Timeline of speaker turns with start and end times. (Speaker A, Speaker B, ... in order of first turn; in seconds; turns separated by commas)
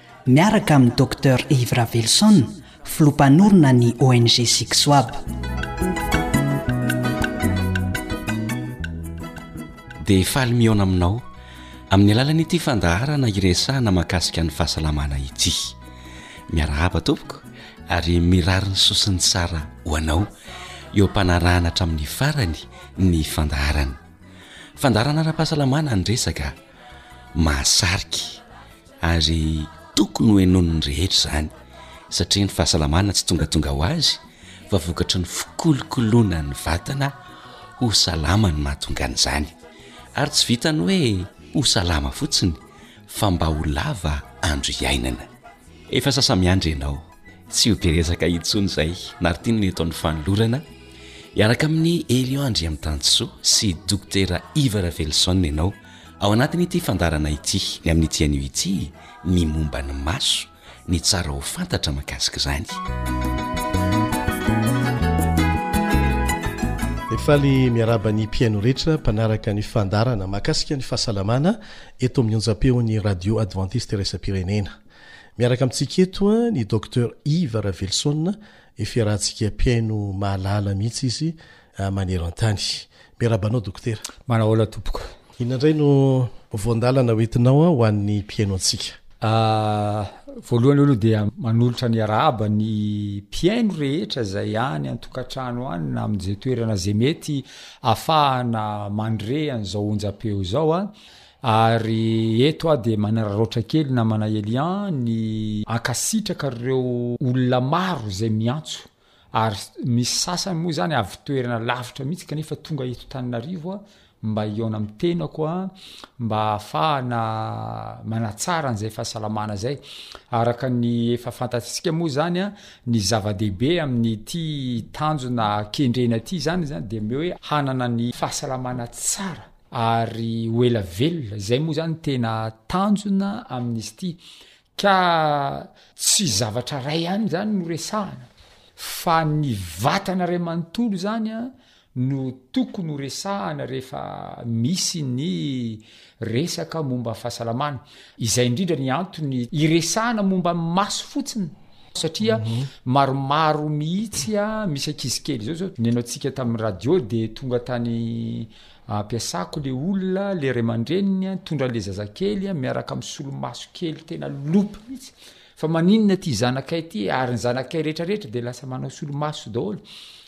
Speaker A: 0.3-5.2, Speaker B: 10.0-11.2, Speaker B: 11.9-15.7, Speaker B: 16.5-20.3, Speaker B: 20.9-24.0, Speaker B: 24.8-26.5, Speaker B: 27.3-28.4, Speaker B: 29.0-31.5, Speaker B: 32.1-37.1, Speaker B: 37.8-39.5, Speaker B: 40.1-45.3, Speaker B: 45.9-50.6, Speaker B: 51.3-62.8, Speaker C: 67.1-74.8, Speaker C: 75.4-84.0, Speaker D: 84.3-85.1, Speaker C: 85.4-89.0, Speaker D: 89.2-100.9, Speaker D: 101.4-134.2, Speaker D: 134.8-169.8, Speaker C: 152.3-152.7